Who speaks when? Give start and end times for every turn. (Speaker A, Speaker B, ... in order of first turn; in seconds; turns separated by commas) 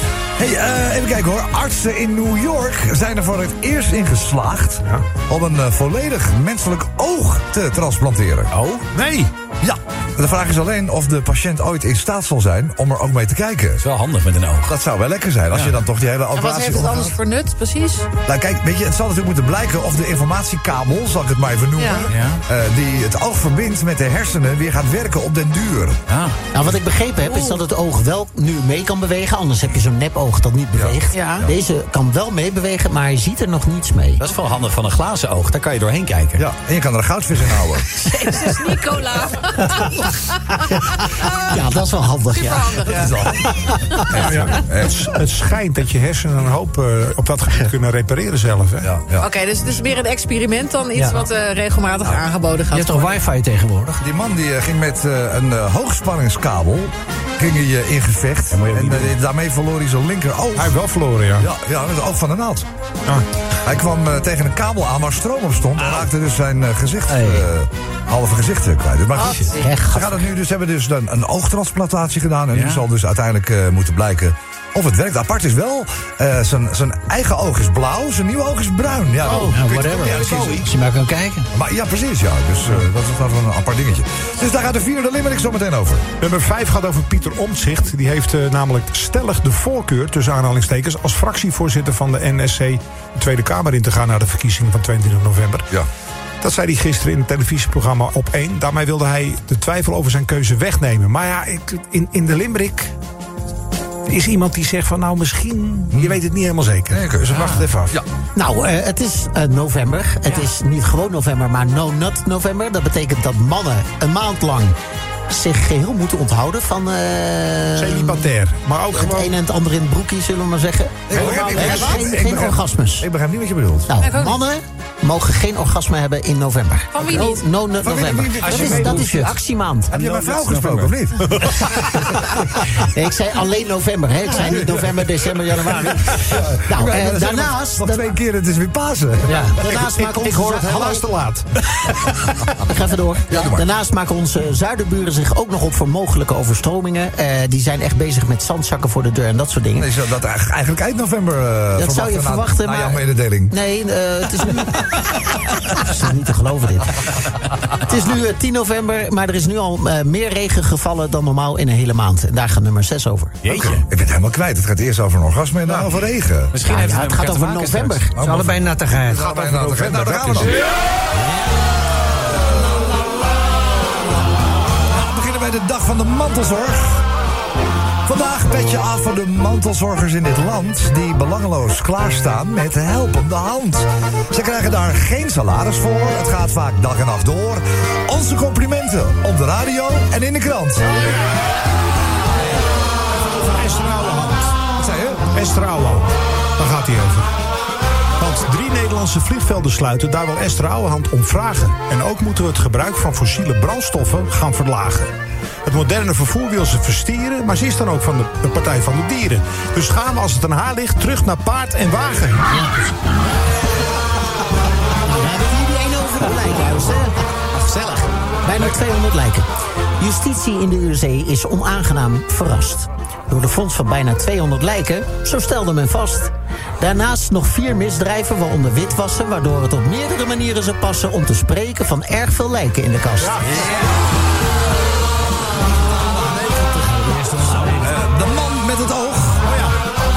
Speaker A: 0.4-8.5, Speaker B: 8.5-8.8, Speaker C: 8.9-9.3, Speaker A: 9.6-13.8, Speaker B: 13.8-14.7, Speaker A: 14.7-17.2, Speaker B: 15.5-15.8, Speaker D: 16.3-18.1, Speaker A: 18.2-26.0, Speaker D: 21.8-22.1, Speaker B: 22.1-22.4, Speaker B: 26.1-26.4, Speaker E: 26.5-34.2, Speaker D: 27.2-27.6, Speaker A: 30.7-31.5, Speaker D: 31.1-31.5, Speaker B: 34.2-36.4, Speaker A: 36.4-37.9, Speaker D: 37.9-41.5, Speaker E: 41.5-42.8, Speaker D: 42.3-43.4, Speaker A: 42.9-45.1, Speaker C: 44.2-48.9, Speaker A: 48.8-49.3, Speaker D: 49.1-53.2, Speaker F: 51.0-51.2, Speaker F: 52.7-54.0, Speaker A: 54.0-60.8, Speaker B: 58.5-59.1, Speaker C: 60.6-61.5, Speaker A: 61.4-62.7, Speaker A: 63.6-80.7, Speaker F: 67.1-67.5, Speaker D: 69.2-69.8, Speaker E: 69.6-70.2, Speaker B: 72.5-72.8, Speaker B: 79.2-80.7, Speaker F: 79.4-81.5, Speaker A: 81.5-86.1, Speaker C: 86.2-95.7, Speaker C: 96.4-102.9, Speaker C: 104.1-108.0, Speaker A: 105.9-106.2, Speaker A: 106.9-108.1, Speaker E: 108.3-114.8, Speaker E: 115.3-118.3, Speaker C: 117.8-119.3, Speaker E: 118.9-123.1, Speaker A: 121.1-124.0, Speaker C: 121.1-122.1, Speaker E: 123.9-129.9, Speaker D: 124.0-124.4, Speaker D: 126.9-127.5, Speaker A: 127.8-129.2, Speaker B: 128.4-129.1, Speaker F: 128.6-129.3, Speaker B: 129.9-131.6, Speaker A: 129.9-131.9, Speaker E: 132.8-138.1, Speaker A: 134.3-135.0, Speaker A: 135.7-139.6, Speaker F: 139.3-139.6, Speaker E: 139.6-141.1, Speaker C: 139.6-141.5, Speaker E: 142.6-149.9, Speaker A: 143.3-143.7, Speaker A: 149.8-153.6, Speaker E: 151.8-154.8, Speaker E: 155.7-156.9, Speaker E: 157.9-163.4, Speaker B: 163.4-163.8, Speaker A: 163.4-166.6, Speaker B: 166.5-168.1, Speaker E: 166.6-168.2, Speaker A: 168.1-170.6, Speaker F: 168.2-169.3, Speaker C: 169.1-170.6, Speaker A: 172.1-172.8, Speaker A: 174.8-177.1, Speaker A: 178.1-190.9, Speaker C: 193.3-194.6, Speaker A: 194.8-195.3, Speaker C: 195.3-197.3, Speaker C: 198.2-205.1, Speaker C: 205.7-212.6, Speaker E: 215.0-217.1, Speaker B: 217.6-218.1, Speaker E: 218.4-219.5, Speaker E: 220.0-233.5, Speaker C: 233.2-233.7, Speaker A: 233.4-233.9, Speaker C: 236.2-237.0, Speaker A: 237.8-239.5, Speaker C: 239.4-239.8